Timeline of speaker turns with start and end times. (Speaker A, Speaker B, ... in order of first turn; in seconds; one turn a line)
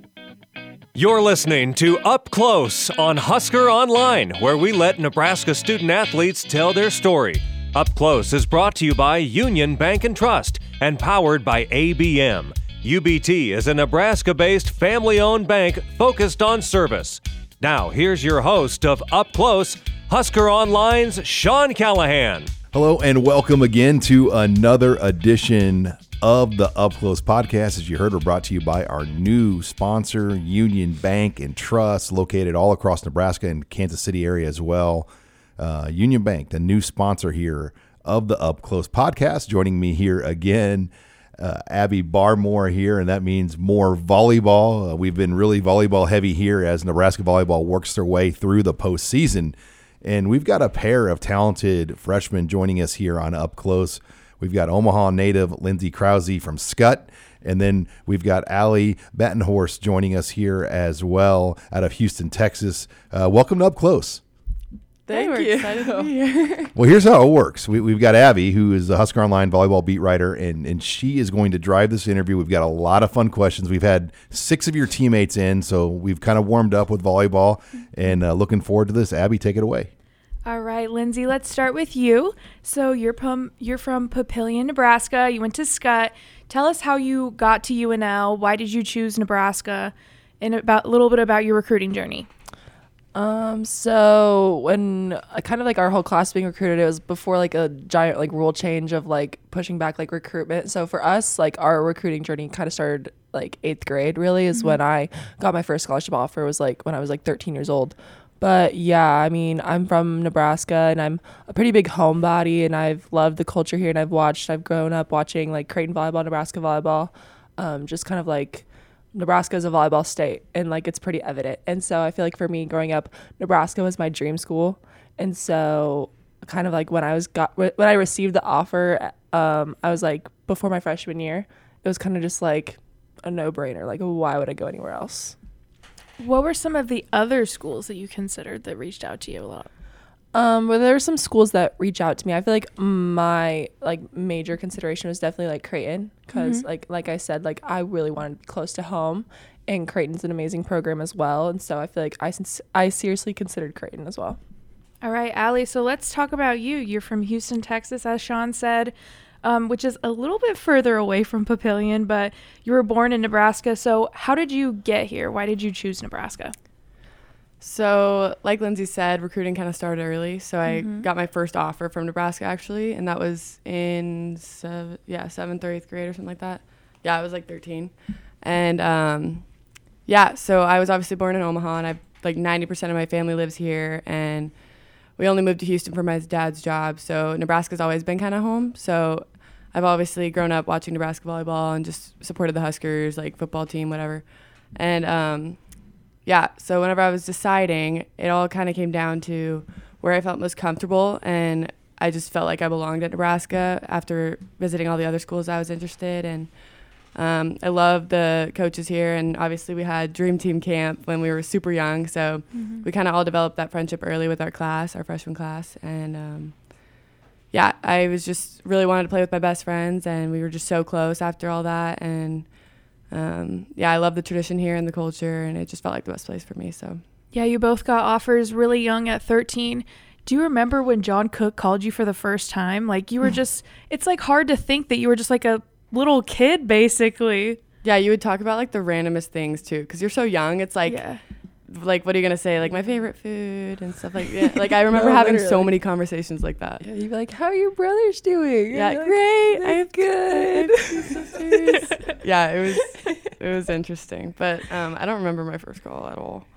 Speaker A: 0.9-22.5
Speaker B: 22.7-64.2
Speaker C: 65.1-66.7
Speaker D: 65.1-66.1
Speaker B: 66.8-79.9
Speaker E: 80.4-92.3
Speaker D: 93.1-135.3
Speaker E: 136.2-139.7
Speaker D: 140.3-154.4
Speaker E: 146.3-146.6
Speaker E: 155.0-166.5
Speaker C: 167.6-217.0
Speaker E: 170.7-171.1
Speaker E: 212.5-212.8
Speaker C: 217.5-227.0
Speaker E: 227.3-237.6
Speaker C: 237.8-241.0
Speaker E: 240.8-241.2
Speaker C: 241.7-246.8
Speaker D: 244.5-245.7
Speaker D: 246.8-252.0
Speaker C: 248.7-256.5